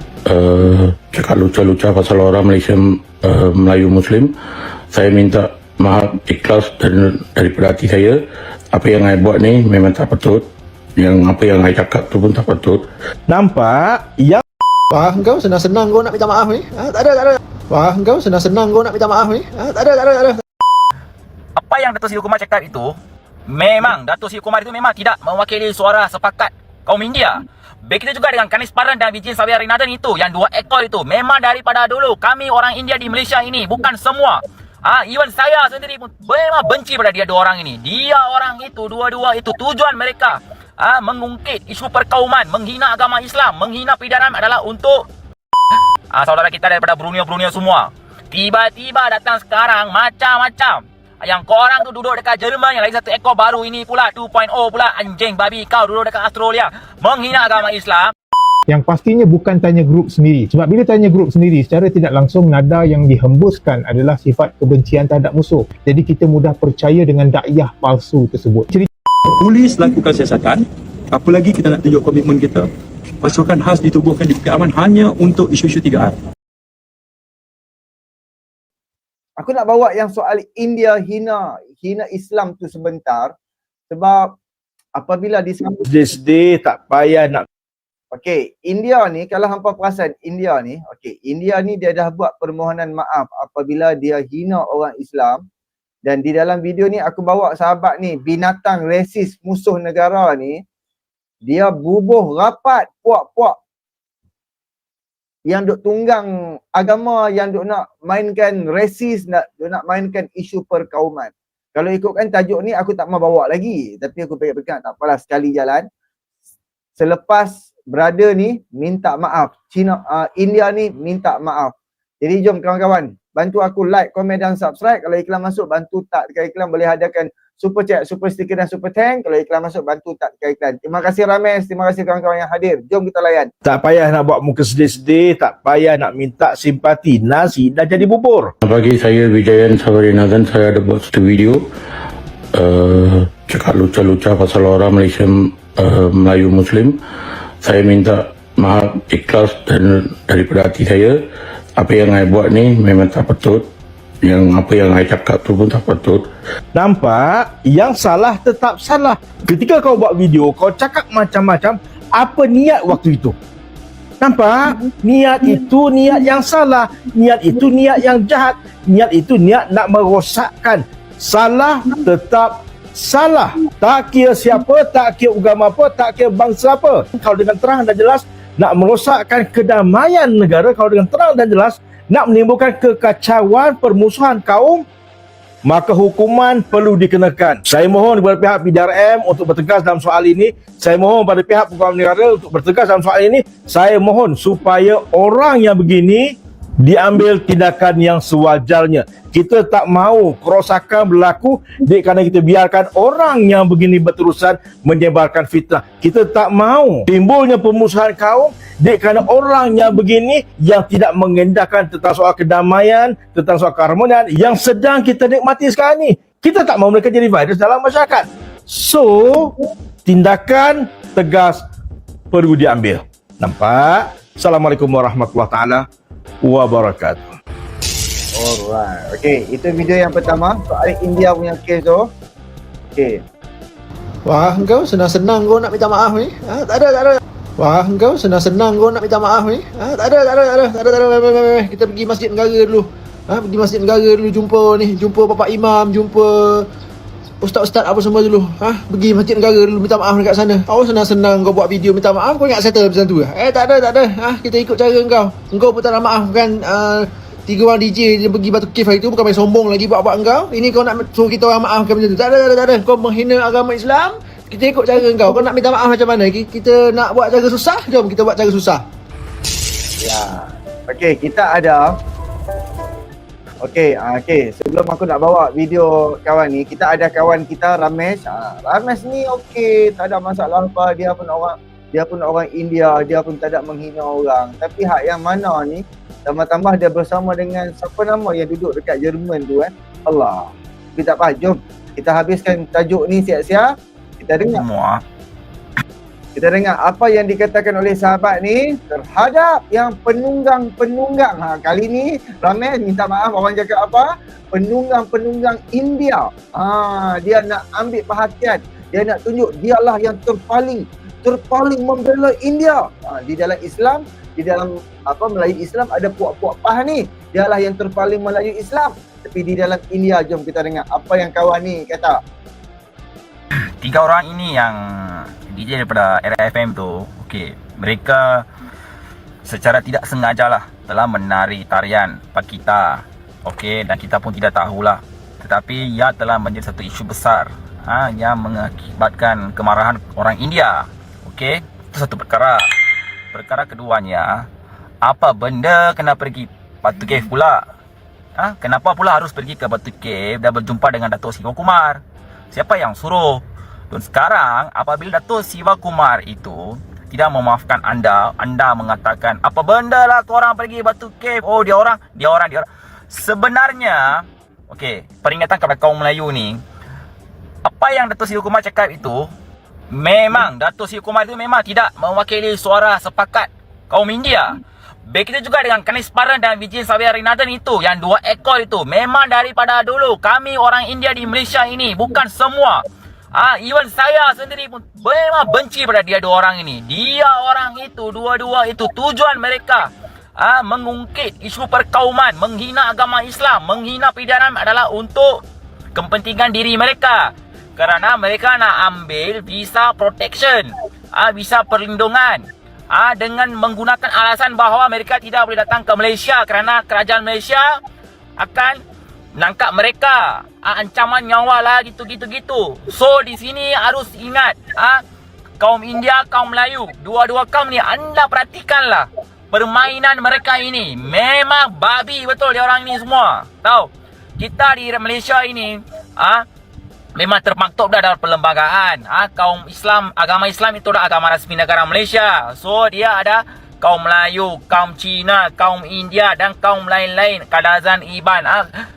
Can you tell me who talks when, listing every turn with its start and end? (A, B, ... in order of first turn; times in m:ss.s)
0:00.3-0:04.3 A
0:04.9-0:08.2 A
0:08.7-0:12.9 A
0:13.3-0:14.4 B
0:14.9-0:20.4 C
0:21.6-0:23.0 D
0:23.5-0:45.0 D
0:46.1-0:58.1 D
0:58.7-1:08.9 E
1:09.4-1:12.7 F
1:13.2-1:16.2 F
1:19.4-1:23.3 G
1:23.9-1:24.2 G
1:25.0-1:25.8 G
1:25.9-1:27.5 B
1:28.1-1:35.4 G
1:36.0-1:40.6 G
1:41.5-1:43.6 G
1:45.5-1:55.8 G
1:57.0-2:13.5 G
2:13.6-2:18.5 B
2:18.6-2:21.6 A
2:22.5-2:27.0 A
2:27.6-2:31.2 A
2:31.8-2:33.7 A
2:34.2-2:36.3 A
2:36.7-2:43.4 B
2:44.2-3:04.8 B
3:05.7-3:39.5 B
3:40.1-3:41.6 B
3:42.3-3:45.9 B
3:46.4-3:47.4 B
3:48.4-3:52.1 G
3:54.3-4:06.7 C
4:07.4-4:28.8 C
4:30.0-4:31.9 G
4:33.6-4:53.7 G
4:54.2-4:54.6 G
4:54.5-4:55.0 D
4:56.4-5:22.2 G
5:23.8-5:28.4 D
5:29.5-5:42.6 D
5:43.3-5:44.4 D
5:45.0-5:47.6 D
5:48.4-5:52.0 D
5:52.5-5:53.4 D
5:53.9-6:06.6 D
6:07.6-6:09.3 D
6:09.9-6:14.6 D
6:15.1-6:22.8 D
6:23.4-6:29.9 D
6:30.4-6:35.4 D
6:36.0-6:47.7 D
6:48.4-6:48.8 D
6:49.4-6:55.0 D
6:55.6-7:06.4 D
7:07.2-7:18.6 D